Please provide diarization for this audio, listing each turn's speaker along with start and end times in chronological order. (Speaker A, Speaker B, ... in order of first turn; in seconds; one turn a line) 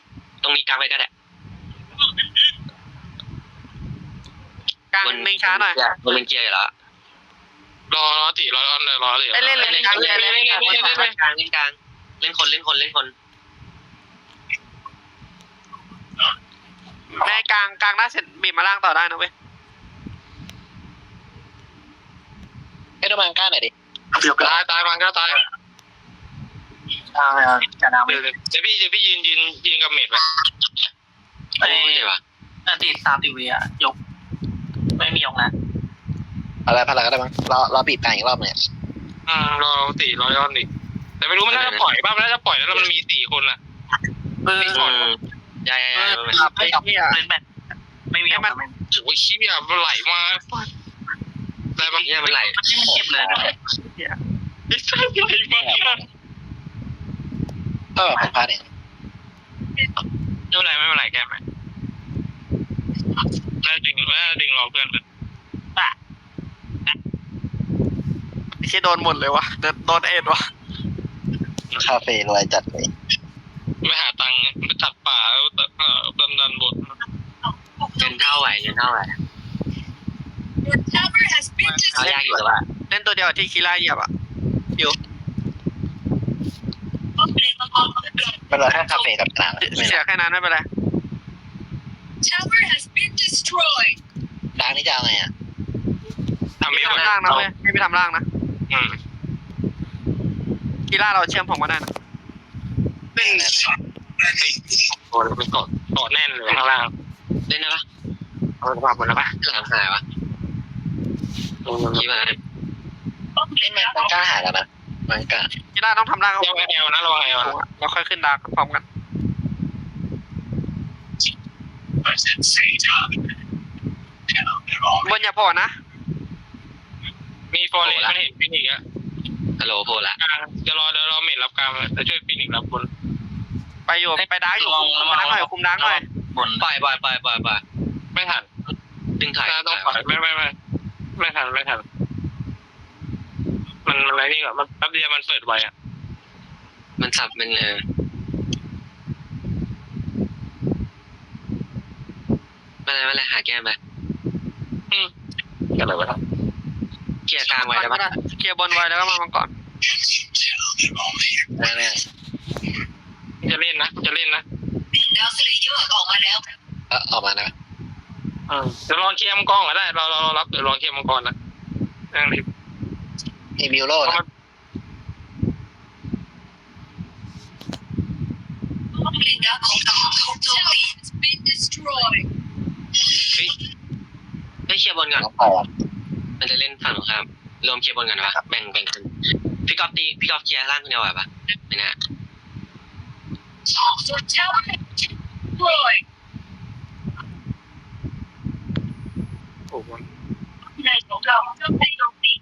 Speaker A: 0.4-1.1
Speaker B: 4.9-5.8
Speaker A: 5.0-6.7
Speaker C: 7.9-11.2
Speaker B: 9.3-11.1
Speaker A: 9.6-13.1
Speaker B: 17.1-19.3
Speaker D: 23.0-23.7
Speaker E: 24.1-24.5
Speaker C: 24.4-25.4
Speaker E: 27.1-28.3
Speaker C: 28.1-30.2
Speaker E: 31.6-32.0
Speaker A: 31.6-32.2
Speaker E: 32.6-34.0
Speaker E: 35.0-35.5
Speaker D: 36.6-38.6
Speaker C: 39.3-40.6
Speaker C: 41.2-43.6
Speaker A: 41.5-41.8
Speaker E: 44.4-45.0
Speaker C: 44.6-45.0
Speaker A: 44.7-46.4
Speaker E: 45.9-47.5
Speaker B: 46.3-47.2
Speaker E: 48.1-48.7
Speaker B: 48.3-48.5
Speaker C: 48.9-50.7
Speaker C: 51.8-52.3
Speaker A: 51.8-52.8
Speaker E: 52.0-53.5
Speaker D: 52.9-53.5
Speaker B: 53.8-54.2
Speaker C: 54.7-56.0
Speaker D: 55.6-56.0
Speaker D: 58.0-58.6
Speaker C: 60.5-61.4
Speaker C: 63.6-65.0
Speaker B: 68.6-70.4
Speaker D: 71.8-72.9
Speaker C: 73.8-76.9
Speaker A: 78.0-79.2
Speaker F: 80.7-82.0
Speaker B: 81.6-82.3
Speaker A: 81.9-82.7
Speaker B: 82.9-84.1
Speaker F: 87.4-87.8
Speaker D: 88.5-90.0
Speaker B: 89.6-90.7
Speaker F: 92.2-93.9
Speaker D: 94.5-95.3
Speaker C: 96.6-97.5
Speaker B: 96.7-98.2
Speaker C: 98.7-99.0
Speaker B: 100.9-101.9
Speaker D: 103.2-103.7
Speaker C: 104.2-106.9
Speaker A: 107.5-107.8
Speaker C: 108.6-109.3
Speaker A: 109.4-110.0
Speaker C: 111.6-112.1
Speaker A: 111.9-112.3
Speaker D: 113.6-115.5
Speaker B: 115.7-118.8
Speaker C: 116.4-117.5
Speaker D: 122.2-122.7
Speaker B: 125.0-125.7
Speaker C: 127.5-128.8
Speaker A: 127.8-128.2
Speaker A: 129.6-130.2
Speaker C: 130.2-132.9
Speaker B: 133.9-136.0
Speaker E: 134.2-136.7
Speaker A: 136.6-137.6
Speaker C: 138.1-138.5
Speaker A: 139.2-140.0
Speaker C: 139.4-140.5
Speaker C: 141.2-141.8
Speaker C: 143.8-145.7
Speaker A: 147.0-147.8
Speaker A: 152.8-153.8
Speaker C: 155.8-156.2
Speaker A: 157.3-158.1
Speaker B: 157.5-159.5
Speaker D: 161.4-162.0
Speaker C: 163.4-164.4
Speaker F: 164.9-166.4
Speaker D: 166.9-167.5
Speaker C: 168.5-171.3
Speaker C: 172.1-172.4
Speaker D: 173.6-174.2
Speaker F: 179.1-182.1
Speaker A: 184.7-185.3
Speaker D: 185.2-185.7
Speaker A: 186.4-189.1
Speaker A: 189.7-191.9
Speaker C: 199.7-200.0